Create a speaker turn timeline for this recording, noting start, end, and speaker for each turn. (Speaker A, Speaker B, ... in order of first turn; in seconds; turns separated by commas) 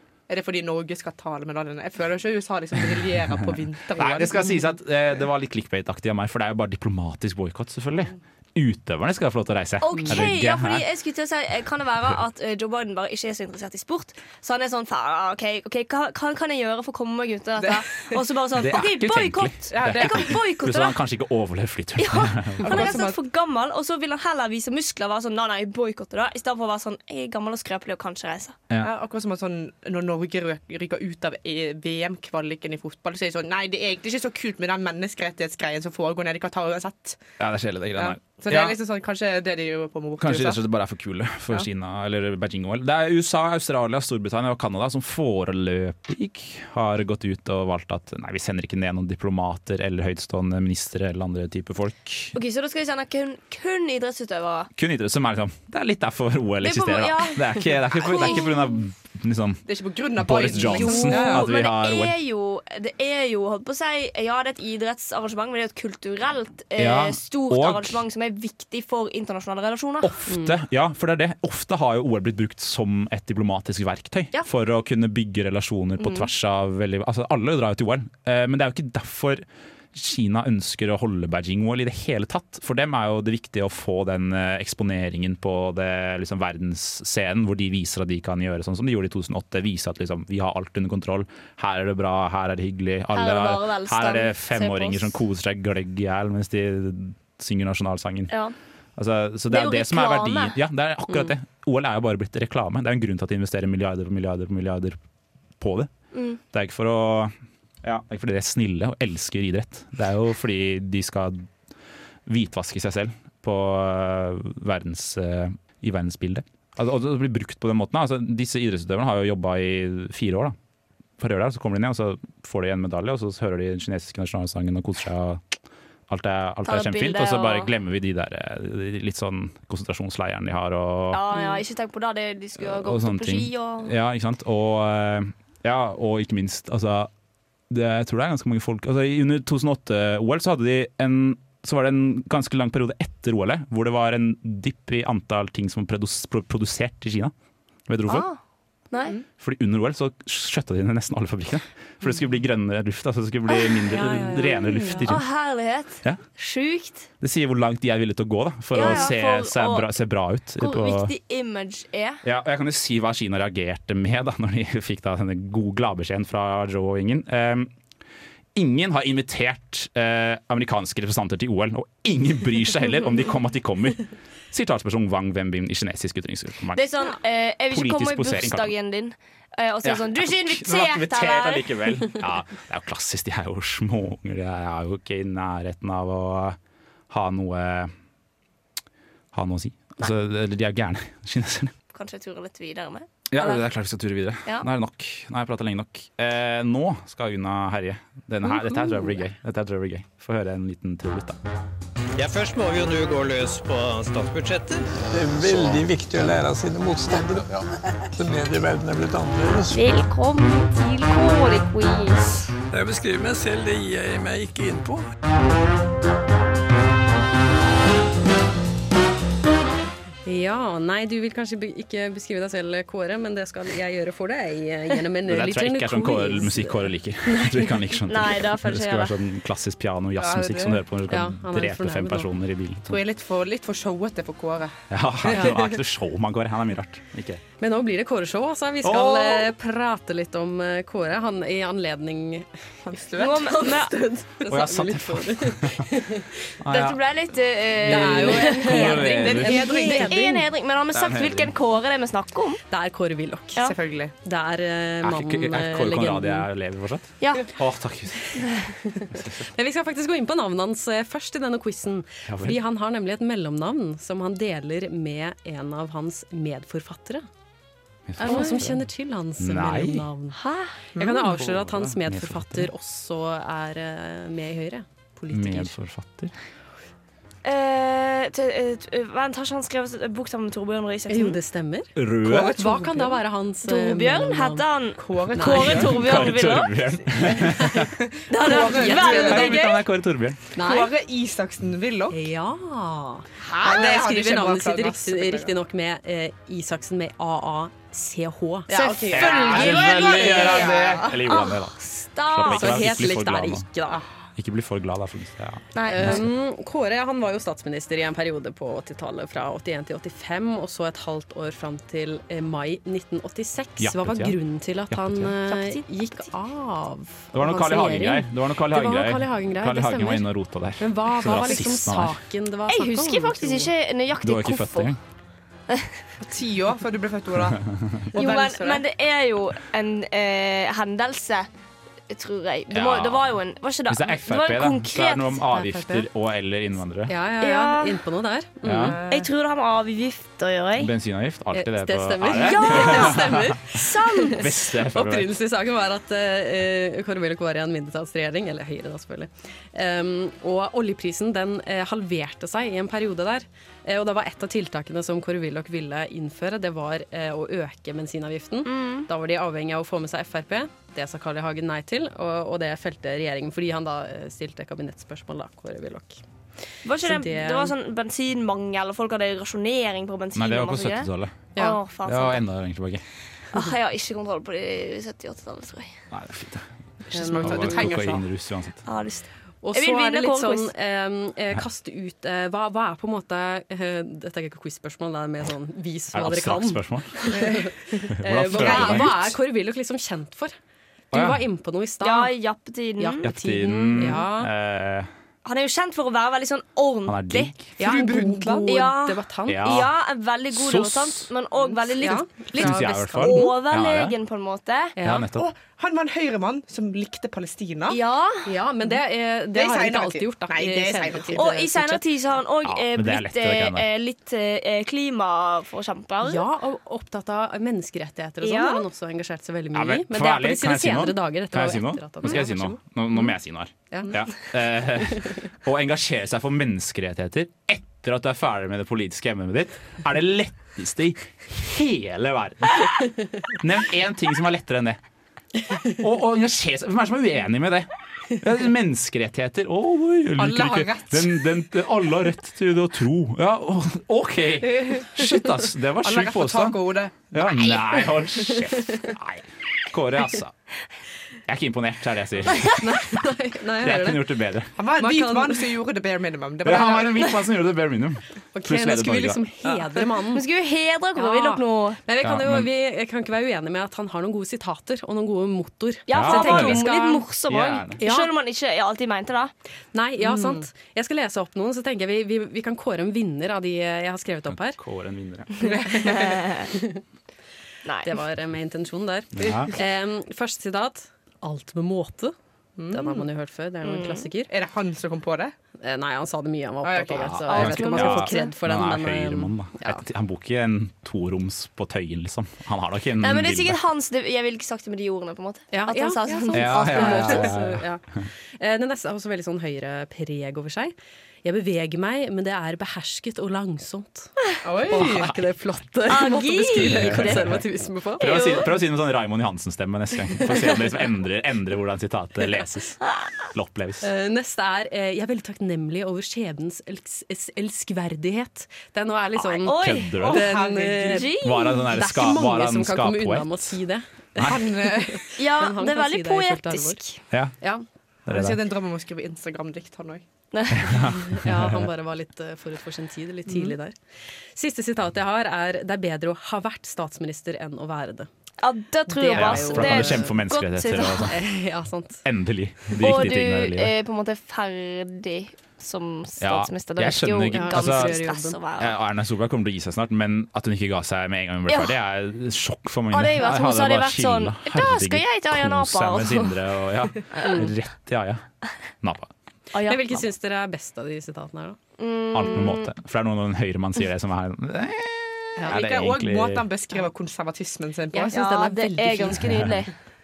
Speaker A: 0.3-4.6, Speaker B: 4.0-10.8, Speaker C: 9.8-21.0, Speaker A: 17.6-18.1, Speaker B: 18.5-22.9, Speaker A: 19.7-20.4, Speaker C: 22.0-28.6, Speaker A: 22.6-23.1, Speaker A: 28.8-37.2, Speaker B: 37.4-38.8, Speaker A: 38.0-40.6, Speaker B: 40.2-52.3, Speaker C: 52.3-54.7, Speaker B: 54.8-59.6, Speaker C: 56.6-58.5, Speaker A: 59.7-61.4, Speaker B: 60.2-62.1, Speaker C: 60.7-70.1, Speaker B: 66.8-68.0, Speaker B: 70.0-98.3, Speaker D: 70.3-70.5, Speaker C: 76.0-76.3, Speaker C: 93.1-95.1, Speaker C: 98.3-98.5, Speaker B: 99.0-105.0, Speaker C: 99.5-100.5, Speaker B: 105.6-105.9, Speaker C: 106.1-106.4, Speaker B: 106.5-111.5, Speaker B: 112.2-120.5, Speaker B: 121.2-125.4, Speaker B: 126.1-131.3, Speaker C: 126.7-127.7, Speaker C: 131.1-133.9, Speaker B: 132.6-137.1, Speaker B: 137.7-147.3, Speaker B: 147.9-148.2, Speaker C: 148.1-148.4, Speaker C: 148.9-149.2, Speaker B: 149.4-155.2, Speaker C: 153.6-157.1, Speaker D: 154.0-155.1, Speaker B: 157.2-161.1, Speaker C: 158.7-159.9, Speaker C: 160.6-162.2, Speaker B: 162.2-167.7, Speaker B: 168.5-176.8, Speaker C: 176.7-181.8, Speaker B: 177.7-178.7, Speaker B: 179.8-186.6, Speaker B: 187.1-187.9, Speaker B: 189.3-191.7, Speaker C: 191.9-193.7, Speaker B: 193.3-201.4, Speaker E: 202.1-205.8, Speaker F: 205.1-209.8, Speaker C: 209.7-212.2, Speaker F: 212.7-215.1, Speaker D: 220.2-227.7, Speaker B: 225.3-233.0, Speaker C: 228.1-229.1, Speaker A: 230.2-230.8, Speaker D: 231.1-232.3, Speaker A: 232.9-234.7, Speaker B: 234.9-237.4, Speaker A: 235.2-235.7, Speaker D: 237.6-242.5, Speaker B: 238.8-239.4, Speaker A: 242.8-243.8, Speaker C: 243.2-244.1, Speaker D: 243.6-246.3, Speaker B: 244.5-245.9, Speaker B: 246.6-247.0, Speaker C: 246.7-252.6, Speaker B: 247.7-249.6, Speaker D: 247.9-250.4, Speaker A: 248.9-250.1, Speaker B: 250.9-251.5, Speaker D: 252.7-253.6, Speaker A: 253.6-254.1, Speaker D: 254.2-256.5, Speaker B: 255.0-258.5, Speaker C: 257.2-257.5, Speaker B: 259.1-259.4, Speaker D: 259.4-267.2, Speaker B: 262.3-262.6, Speaker B: 268.1-268.9, Speaker D: 268.2-270.4, Speaker C: 268.3-268.6, Speaker B: 269.4-270.0, Speaker C: 270.3-270.8, Speaker D: 270.9-275.7, Speaker B: 271.1-272.7, Speaker B: 275.3-276.3, Speaker C: 277.4-281.4, Speaker D: 281.1-284.6, Speaker B: 281.9-282.5, Speaker A: 282.2-283.2, Speaker C: 283.6-286.8, Speaker A: 285.0-286.0, Speaker D: 285.4-285.9, Speaker B: 285.9-287.9, Speaker A: 287.8-289.6, Speaker C: 288.3-289.8, Speaker B: 288.9-290.4, Speaker D: 289.0-289.4, Speaker D: 290.6-290.9, Speaker A: 290.6-292.3, Speaker D: 292.1-299.2, Speaker A: 293.4-295.5, Speaker A: 298.7-301.2, Speaker C: 298.8-302.9, Speaker B: 299.1-303.7, Speaker D: 302.4-304.0, Speaker B: 304.4-306.3, Speaker C: 305.7-306.2, Speaker D: 305.9-323.7, Speaker B: 313.8-314.4, Speaker B: 314.9-315.3, Speaker C: 315.4-315.8, Speaker B: 317.3-322.2, Speaker C: 322.7-324.9, Speaker B: 324.2-325.0, Speaker C: 325.7-326.0, Speaker A: 326.2-328.8, Speaker C: 328.1-331.5, Speaker C: 332.1-335.4, Speaker B: 332.7-333.3, Speaker B: 333.9-337.1, Speaker D: 335.5-336.1, Speaker D: 337.1-339.0, Speaker C: 337.4-338.0, Speaker B: 338.6-339.0, Speaker A: 338.8-339.3, Speaker C: 339.1-340.9, Speaker B: 340.8-345.3, Speaker D: 341.5-366.2, Speaker C: 342.3-344.4, Speaker C: 358.6-359.1, Speaker C: 366.8-372.4, Speaker D: 367.0-367.7, Speaker B: 370.3-371.5, Speaker B: 372.0-373.0, Speaker C: 373.5-375.9, Speaker B: 376.1-376.7, Speaker D: 377.1-377.9, Speaker A: 377.1-378.2, Speaker B: 377.4-378.8, Speaker C: 378.8-380.7, Speaker D: 379.6-390.5, Speaker B: 386.1-387.2, Speaker A: 387.3-387.7, Speaker B: 388.2-389.3, Speaker A: 388.7-389.1, Speaker B: 391.1-391.4, Speaker D: 391.1-392.3, Speaker C: 392.0-393.3, Speaker D: 393.0-394.5, Speaker B: 393.2-395.1, Speaker C: 395.4-397.5, Speaker B: 397.1-397.6, Speaker A: 397.8-398.7, Speaker D: 397.8-399.8, Speaker C: 398.7-404.9, Speaker B: 399.5-399.9, Speaker B: 400.5-401.3, Speaker A: 401.6-402.2, Speaker D: 402.0-403.6, Speaker B: 402.6-404.1, Speaker D: 404.9-405.2, Speaker B: 405.0-405.5, Speaker A: 405.3-408.0, Speaker C: 407.9-408.5, Speaker D: 408.4-412.0, Speaker A: 409.5-411.5, Speaker C: 411.4-416.5, Speaker B: 412.6-413.9, Speaker D: 416.2-423.2, Speaker C: 418.4-418.8, Speaker B: 419.7-435.0, Speaker B: 435.9-446.8, Speaker A: 440.4-441.4, Speaker A: 444.7-445.1, Speaker A: 446.0-447.8, Speaker B: 447.3-450.5, Speaker B: 451.5-452.7, Speaker D: 452.7-454.3, Speaker B: 453.8-454.7, Speaker A: 454.8-457.3, Speaker D: 454.9-455.7, Speaker B: 456.6-459.4, Speaker D: 458.5-460.4, Speaker C: 460.3-462.0, Speaker D: 461.1-467.2, Speaker B: 462.2-462.7, Speaker C: 466.1-469.5, Speaker B: 466.1-466.9, Speaker B: 467.5-468.0, Speaker D: 468.0-468.3, Speaker D: 469.9-474.8, Speaker A: 470.2-470.6, Speaker B: 474.5-475.7, Speaker A: 475.6-476.5, Speaker C: 476.2-476.7, Speaker D: 476.7-477.0, Speaker C: 477.8-478.1, Speaker D: 478.0-482.3, Speaker B: 479.3-479.7, Speaker A: 482.8-483.2, Speaker D: 482.9-484.5, Speaker C: 483.8-484.2, Speaker A: 484.5-485.5, Speaker D: 485.8-490.0, Speaker A: 486.8-487.4, Speaker B: 487.1-493.8, Speaker C: 487.5-488.5, Speaker C: 493.2-497.5, Speaker D: 495.7-498.0, Speaker B: 496.5-497.8, Speaker D: 498.6-508.4, Speaker A: 504.6-505.3, Speaker B: 505.0-505.3, Speaker C: 506.1-507.6, Speaker B: 506.8-507.6, Speaker C: 508.2-508.7, Speaker B: 508.2-514.1, Speaker D: 514.0-527.0, Speaker C: 519.6-520.5, Speaker B: 519.6-520.5, Speaker A: 520.2-521.3, Speaker C: 521.1-521.9, Speaker B: 521.4-523.8, Speaker A: 524.4-525.3, Speaker C: 525.4-527.2, Speaker B: 528.3-528.6, Speaker A: 528.3-530.2, Speaker C: 530.5-531.0, Speaker B: 530.7-531.9, Speaker D: 531.3-533.9, Speaker A: 533.5-533.7, Speaker D: 534.5-538.3, Speaker C: 538.6-541.3, Speaker D: 539.1-540.4, Speaker B: 539.3-541.4, Speaker D: 541.3-542.2, Speaker B: 542.2-543.9, Speaker C: 543.0-549.0, Speaker B: 546.4-548.2, Speaker D: 547.5-548.5, Speaker B: 548.8-558.4, Speaker C: 551.7-551.9, Speaker C: 553.1-556.6, Speaker C: 557.3-557.6, Speaker B: 559.0-559.3, Speaker C: 559.7-560.2, Speaker D: 559.8-561.8, Speaker C: 562.0-562.9, Speaker B: 562.3-566.6, Speaker A: 565.6-568.4, Speaker D: 568.1-569.8, Speaker C: 568.3-569.9